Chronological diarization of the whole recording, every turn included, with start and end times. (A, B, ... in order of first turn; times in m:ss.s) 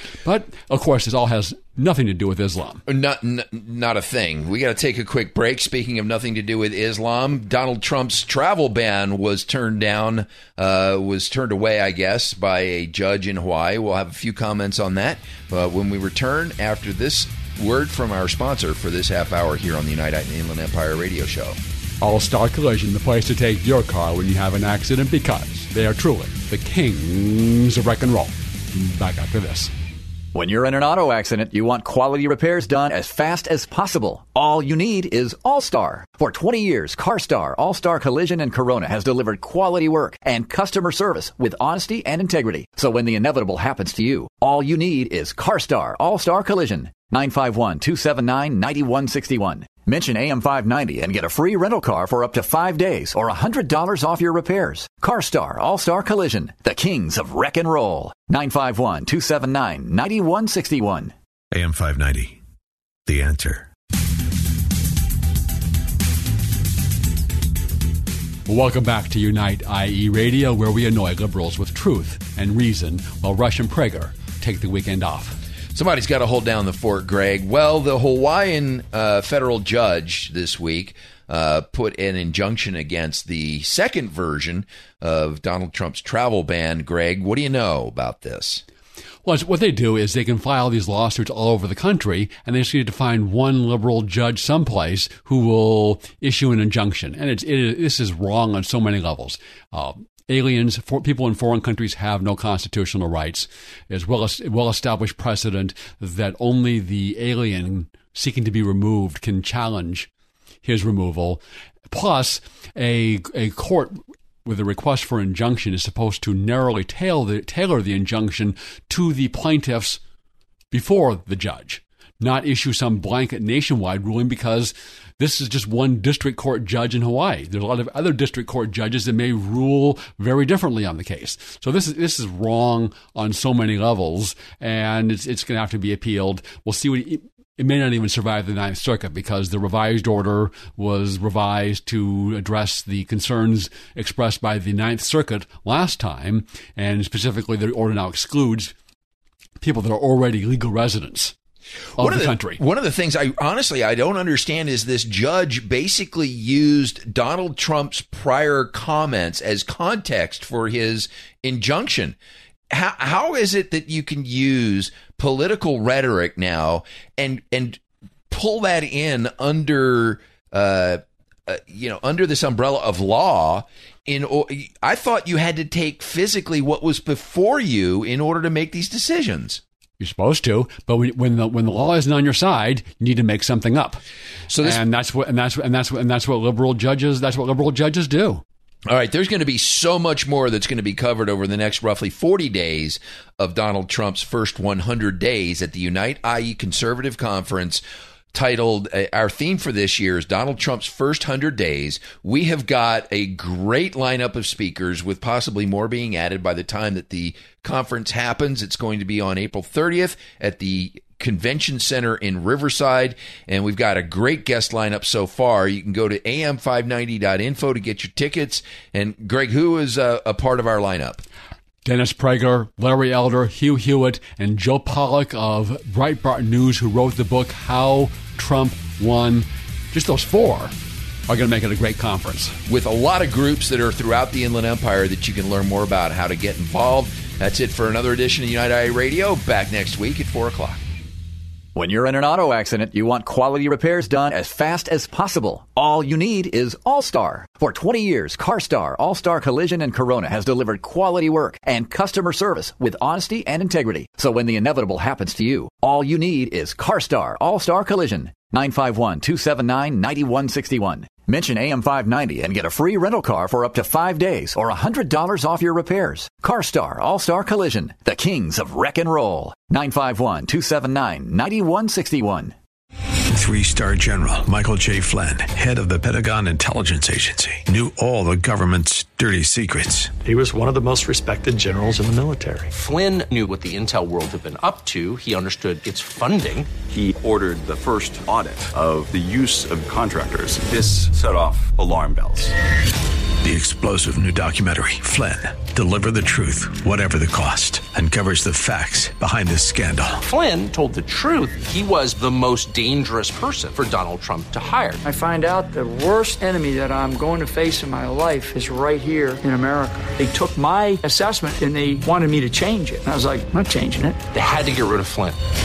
0:00.2-0:02.8 A
0:02.9-0:21.6 B
0:22.0-0:29.7 A
0:30.3-1:01.1 C
1:01.5-1:02.4 D
1:03.1-1:03.7 D
1:08.4-1:15.4 A
1:15.7-1:28.6 B
1:29.2-1:50.1 A
1:50.6-2:00.0 A
2:00.7-2:28.7 A
2:29.6-2:31.3 A
2:32.0-2:32.6 A
2:32.0-2:42.2 B
2:42.7-2:59.6 B
3:00.0-3:04.0 A
3:04.5-3:04.8 B
3:04.6-3:08.4 A
3:08.9-3:17.8 B
3:18.3-3:41.2 B
3:41.8-3:50.7 A
3:51.3-3:52.6 A
3:52.7-4:00.8 B
4:01.7-4:32.5 C
4:33.3-4:40.1 D
4:40.2-4:42.7 E
4:42.7-4:46.8 F
4:46.8-4:52.5 G
4:53.4-5:00.2 D
5:00.2-5:05.0 F
5:05.0-5:14.2 H
5:14.3-5:15.4 F